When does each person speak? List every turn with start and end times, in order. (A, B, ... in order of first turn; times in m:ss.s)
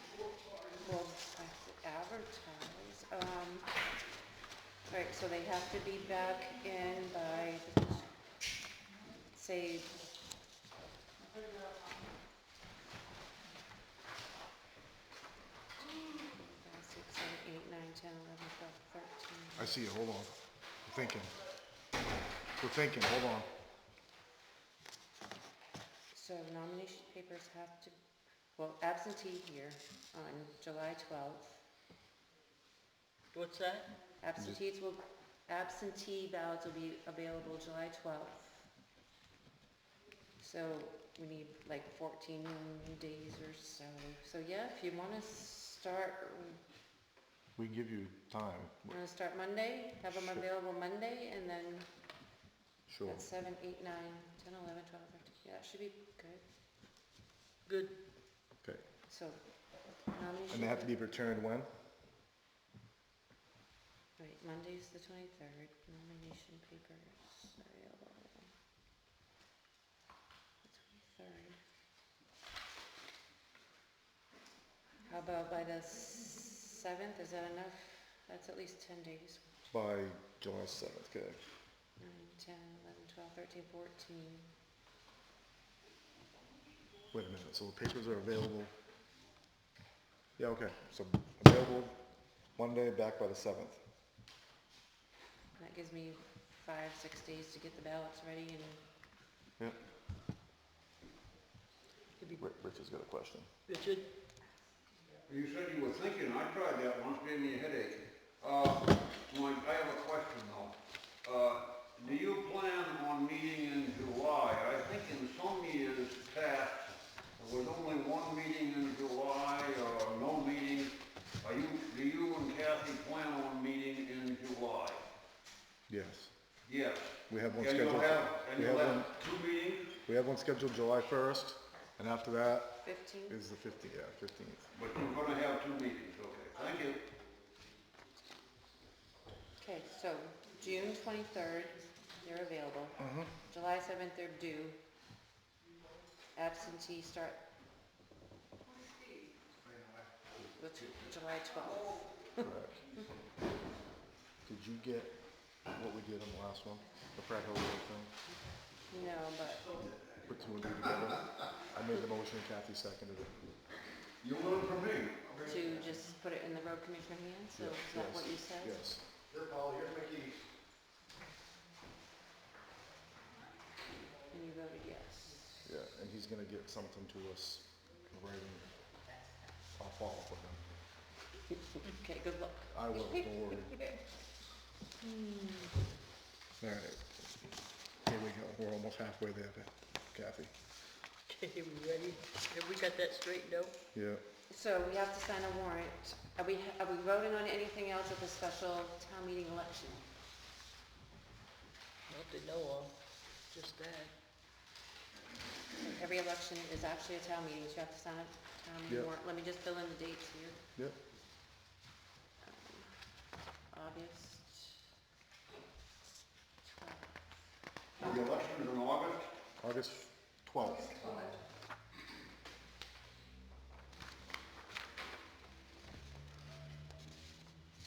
0:00.8-0:03.7 A
0:04.9-0:08.1 A
0:09.3-0:09.9 A
0:15.9-0:19.7 A
0:19.6-0:21.4 B
0:22.6-0:23.5 B
0:26.1-0:28.0 A
0:28.6-0:31.6 A
0:33.3-0:33.9 C
0:34.2-0:38.7 A
0:40.4-0:46.6 A
0:47.6-0:49.0 B
0:48.9-0:51.9 A
0:52.9-0:53.2 B
0:53.1-0:56.4 A
0:57.7-0:57.9 C
0:59.1-0:59.4 A
1:00.0-1:00.9 A
1:00.5-1:01.7 B
1:04.2-1:08.5 A
1:10.6-1:11.6 A
1:15.0-1:19.4 A
1:19.7-1:21.4 B
1:22.0-1:24.5 A
1:27.1-1:28.7 B
1:30.4-1:32.0 B
1:32.6-1:33.8 B
1:35.6-1:38.8 A
1:42.4-1:43.5 B
1:43.7-1:44.0 C
1:45.3-2:05.1 D
2:05.9-2:06.3 B
2:06.7-2:09.9 D
2:07.3-2:09.1 B
2:10.0-2:14.7 B
2:12.8-2:13.3 A
2:14.7-2:17.0 D
2:19.6-2:24.8 A
2:23.0-2:23.3 B
2:26.4-2:27.4 A
2:30.6-2:32.5 A
2:32.4-2:32.8 B
2:34.5-2:35.1 B
2:35.7-2:38.1 B
2:38.9-2:39.8 A
2:40.2-2:43.4 B
2:44.2-2:45.3 D
2:45.4-2:48.8 A
2:47.6-2:50.0 B
2:54.3-2:55.5 A
2:55.6-2:58.8 B
2:59.8-3:00.7 B
3:01.9-3:03.5 A
3:02.7-3:03.9 B
3:06.6-3:07.2 B
3:08.0-3:10.5 B
3:11.3-3:13.8 C
3:13.9-3:14.2 B
3:14.5-3:20.0 A
3:22.1-3:23.0 C
3:23.5-3:24.1 C
3:25.8-3:30.6 A
3:32.4-3:32.9 A
3:33.7-3:34.8 A
3:36.6-3:37.2 A
3:38.0-3:39.3 D
3:39.6-3:41.3 B